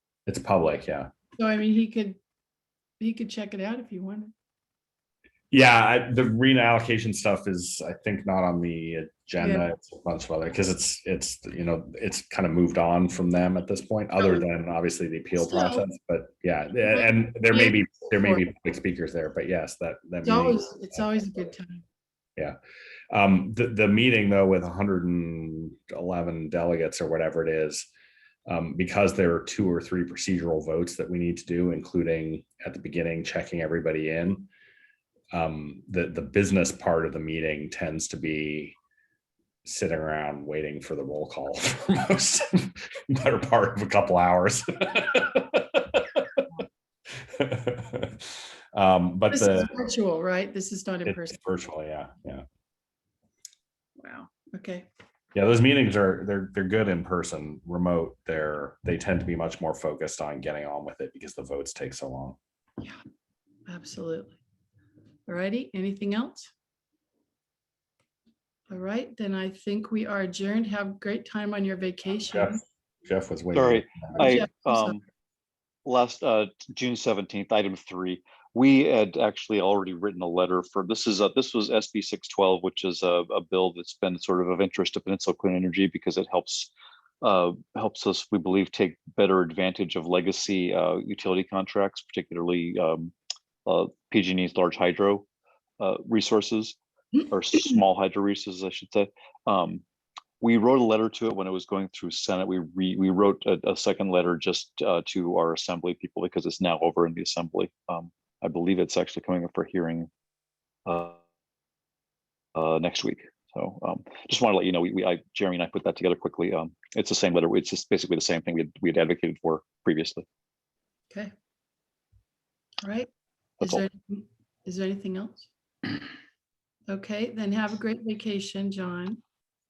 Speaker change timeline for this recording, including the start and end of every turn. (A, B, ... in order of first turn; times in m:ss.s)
0:00.3-0:01.1 A
0:01.4-0:02.2 B
0:03.0-0:04.3 B
0:05.5-0:21.0 A
0:09.4-0:09.7 B
0:14.2-0:14.4 B
0:15.4-0:15.8 B
0:16.8-0:18.4 B
0:20.2-0:21.8 B
0:23.1-0:27.9 A
0:28.5-0:34.5 A
0:35.3-0:38.8 A
0:39.6-0:46.4 A
0:47.2-0:49.7 A
0:49.3-0:51.4 B
0:51.0-0:52.4 A
0:54.0-0:54.9 B
0:55.3-1:02.4 A
1:03.7-1:04.4 B
1:05.3-1:06.5 B
1:08.7-1:12.6 B
1:12.3-1:14.4 A
1:13.5-1:15.0 C
1:14.2-1:15.0 B
1:15.8-1:33.1 C
1:33.6-1:35.2 C
1:35.8-1:39.8 C
1:40.4-1:50.1 C
1:50.8-1:51.2 C
1:52.6-2:00.2 C
2:02.8-2:05.5 B
2:06.9-2:09.2 B